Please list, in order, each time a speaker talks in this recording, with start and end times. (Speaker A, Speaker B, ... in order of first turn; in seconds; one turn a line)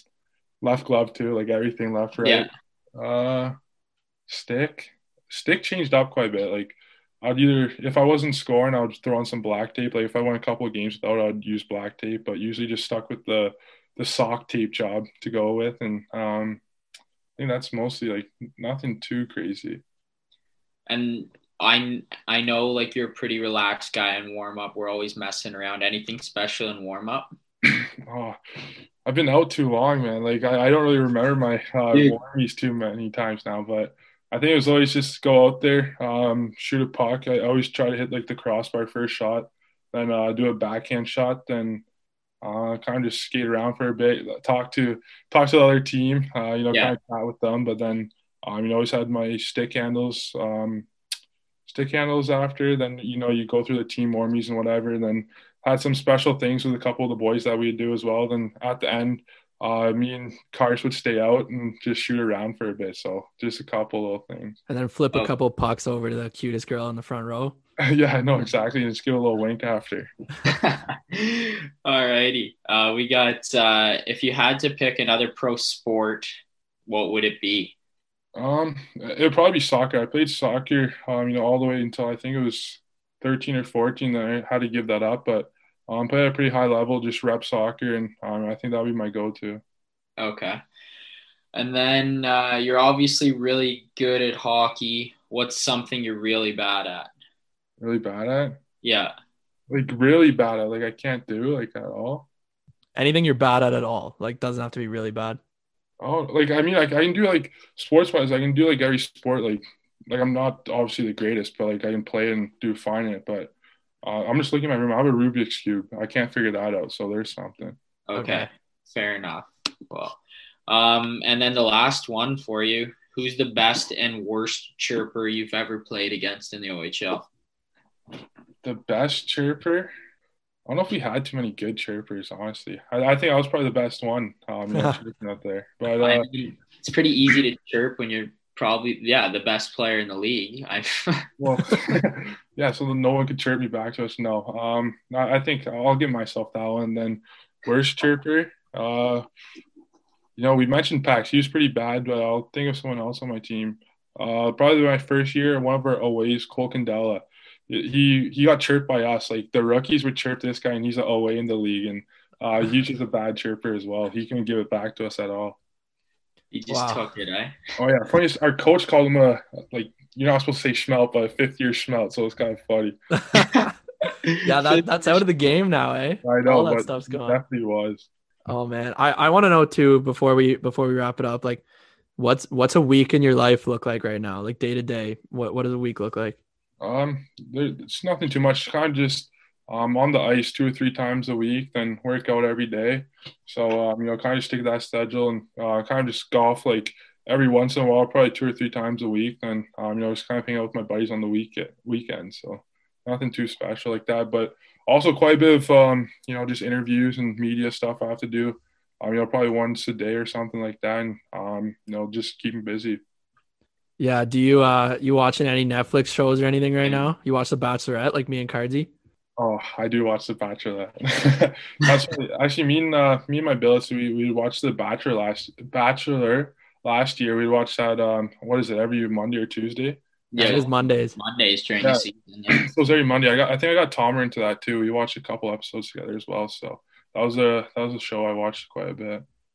Speaker A: 0.6-3.5
Speaker B: 2.2-2.5
Speaker A: 4.3-16.6
Speaker A: 17.4-19.8
Speaker B: 20.9-27.3
Speaker A: 27.6-28.4
Speaker A: 29.0-41.8
Speaker A: 42.4-50.9
Speaker A: 51.6-64.6
Speaker C: 64.7-67.5
Speaker A: 67.8-70.5
Speaker B: 70.5-76.3
Speaker B: 76.9-77.7
Speaker A: 78.3-89.6
Speaker B: 90.2-90.6
Speaker B: 91.5-97.1
Speaker A: 97.8-98.6
Speaker B: 98.8-99.1
Speaker A: 99.7-102.3
Speaker C: 103.0-105.4
Speaker A: 106.0-113.5
Speaker A: 114.0-117.8
Speaker B: 118.1-127.3
Speaker C: 118.2-118.5
Speaker A: 128.6-129.9
Speaker A: 130.7-136.2
Speaker C: 134.7-135.0
Speaker B: 136.0-141.3
Speaker A: 141.4-149.2
Speaker A: 150.4-165.6
Speaker B: 166.5-167.5
Speaker C: 166.7-167.1
Speaker A: 167.8-172.9
Speaker C: 173.1-173.7
Speaker B: 174.3-175.2
Speaker C: 174.4-177.4
Speaker A: 176.2-178.1
Speaker C: 178.5-181.6
Speaker C: 182.2-186.4
Speaker A: 186.8-213.0
Speaker C: 214.0-218.9
Speaker A: 219.4-230.6
Speaker B: 230.3-232.7
Speaker C: 230.4-231.2
Speaker A: 231.8-239.2